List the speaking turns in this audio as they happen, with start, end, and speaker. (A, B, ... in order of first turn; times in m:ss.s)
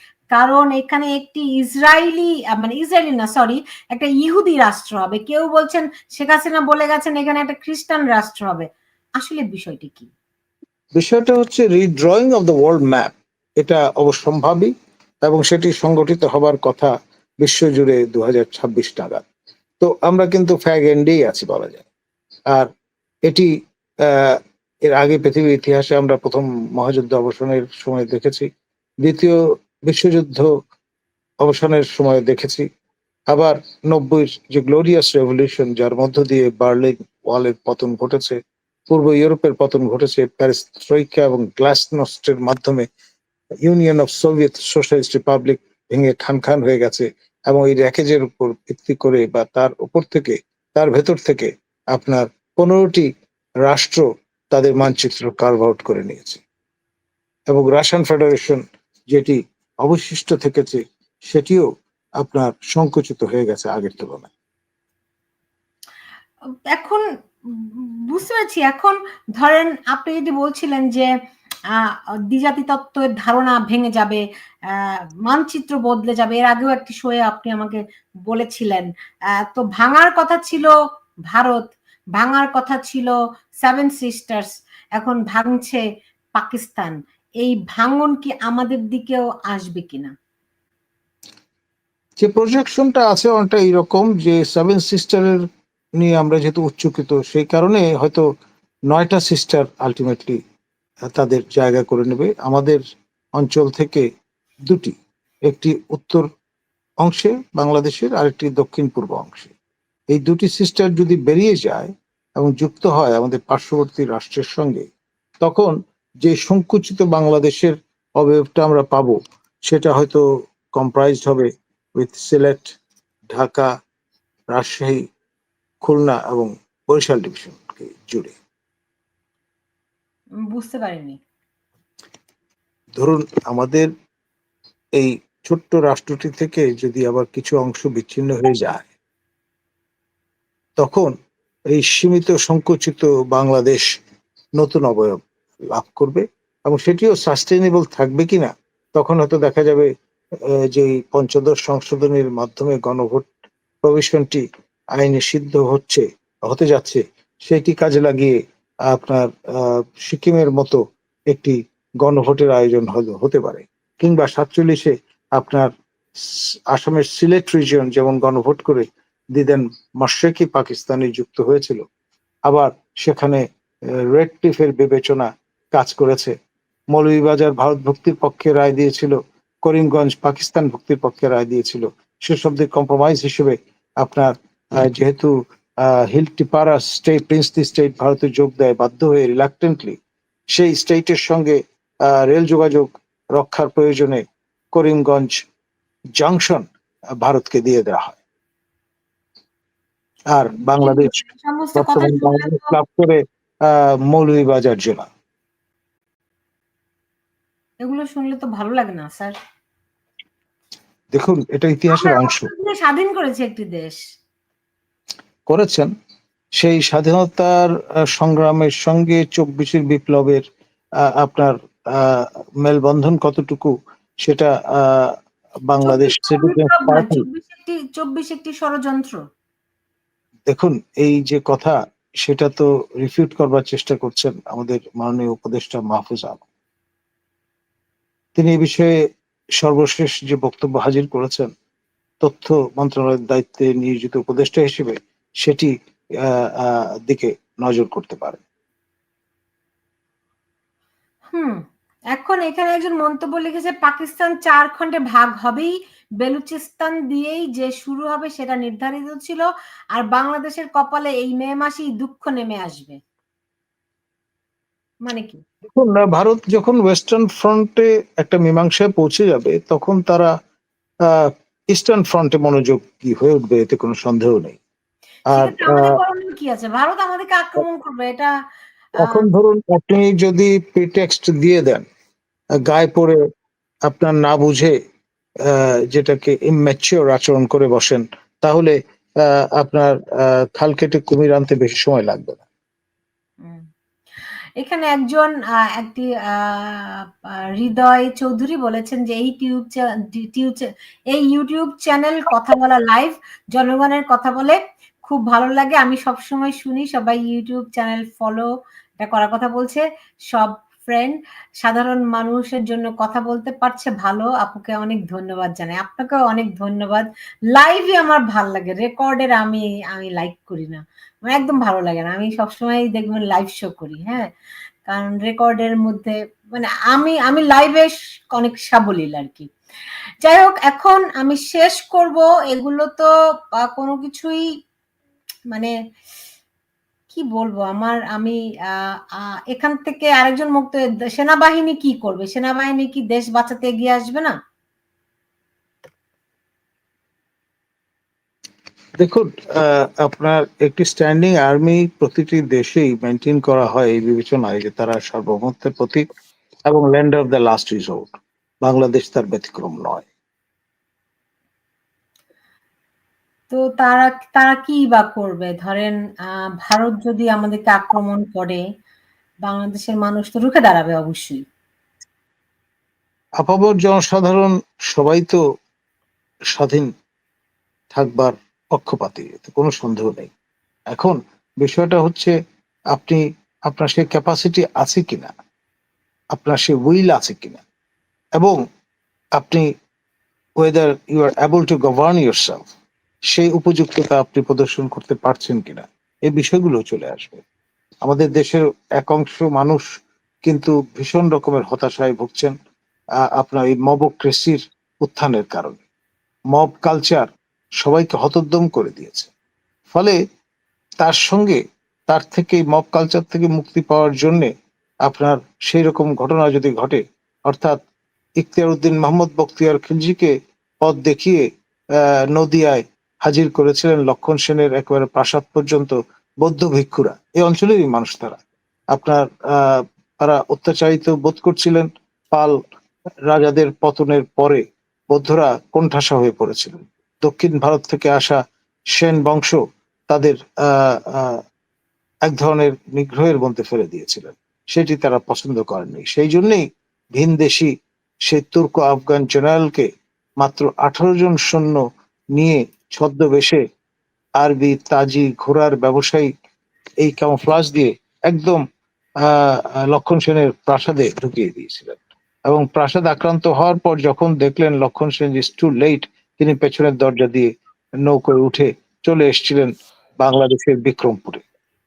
0:00.3-0:10.1 A
0:11.0-0:14.7 B
0:15.2-0:16.9 B
0:17.4-0:19.2 B
0:19.8-0:21.9 B
0:24.1-0:28.5 B
0:29.0-0:30.5 B
0:31.4-0:32.7 B
0:33.3-0:38.4 B
0:38.9-0:42.9 B
0:43.6-0:53.1 B
0:53.6-0:56.4 B
0:57.5-1:01.7 B
1:02.2-1:04.3 B
1:06.7-1:11.1 A
1:11.7-1:20.8 A
1:21.3-1:25.8 A
1:26.4-1:30.1 A
1:32.2-1:35.4 B
1:36.0-1:38.3 B
1:38.9-1:40.4 B
1:41.1-1:42.8 B
1:43.4-1:44.0 B
1:44.7-1:45.0 B
1:45.5-1:46.3 B
1:47.0-1:49.5 B
1:50.1-1:54.9 B
1:55.4-1:55.7 B
1:56.2-2:00.2 B
2:00.8-2:02.7 B
2:03.3-2:03.7 B
2:04.5-2:05.0 B
2:05.8-2:08.4 B
2:10.5-2:11.2 A
2:13.0-2:13.9 B
2:15.0-2:18.9 B
2:20.8-2:21.1 B
2:21.7-2:23.8 B
2:24.6-2:25.2 B
2:25.7-2:29.9 B
2:30.7-2:33.3 B
2:33.8-2:34.4 B
2:35.0-2:38.4 B
2:38.9-2:40.8 B
2:41.3-2:51.8 B
2:52.5-2:53.4 B
2:54.1-2:56.4 B
2:56.9-3:10.0 B
3:10.5-3:14.2 B
3:14.7-3:15.4 B
3:16.2-3:16.6 B
3:17.2-3:18.2 B
3:20.3-3:21.1 B
3:20.7-3:22.7 A
3:21.8-3:25.1 B
3:27.8-3:29.4 A
3:31.1-3:32.5 B
3:31.9-3:34.0 A
3:35.5-3:35.9 B
3:36.6-3:40.4 B
3:41.0-3:43.7 B
3:44.2-3:45.1 B
3:45.7-3:47.2 B
3:45.8-3:49.2 A
3:50.5-3:56.4 B
3:58.4-3:59.0 B
3:59.6-4:01.5 B
4:02.2-4:05.7 B
4:06.2-4:08.4 B
4:11.3-4:23.0 A
4:25.1-4:25.4 A
4:25.7-4:30.3 B
4:31.1-4:34.6 B
4:35.3-4:36.0 B
4:35.3-4:38.4 A
4:39.0-4:39.3 A
4:39.0-4:41.8 B
4:42.6-4:43.2 B
4:43.9-4:44.8 B
4:45.5-4:52.4 B
4:54.6-4:57.0 A
4:57.6-5:08.5 A
5:09.0-5:09.8 A
5:10.3-5:24.3 A
5:24.9-5:29.5 A
5:30.2-5:34.4 A
5:37.1-5:44.4 A
5:49.0-5:56.0 B
5:56.7-6:00.1 B
6:03.5-6:08.6 A
6:09.5-6:11.4 A
6:13.4-6:15.4 B
6:16.6-6:16.9 B
6:17.9-6:20.3 B
6:20.9-6:22.3 B
6:22.9-6:25.3 B
6:26.3-6:27.6 B
6:29.4-6:29.7 B
6:30.6-6:32.7 B
6:33.3-6:37.4 B
6:38.0-6:39.8 B
6:40.5-6:42.5 B
6:43.4-6:45.8 B
6:46.5-6:47.3 B
6:47.8-6:49.3 B
6:49.9-6:50.2 B
6:51.0-6:54.5 B
6:55.1-6:57.8 B
6:58.4-7:01.4 B
7:02.0-7:08.4 B
7:08.9-7:12.6 B
7:13.3-7:18.4 B
7:19.0-7:19.6 B
7:20.1-7:21.4 B
7:22.3-7:26.6 B
7:27.2-7:27.7 B
7:28.3-7:29.9 B
7:30.4-7:31.8 B
7:32.4-7:33.6 B
7:34.4-7:36.3 B
7:37.0-7:38.6 B
7:39.2-7:47.5 B
7:48.0-7:51.4 B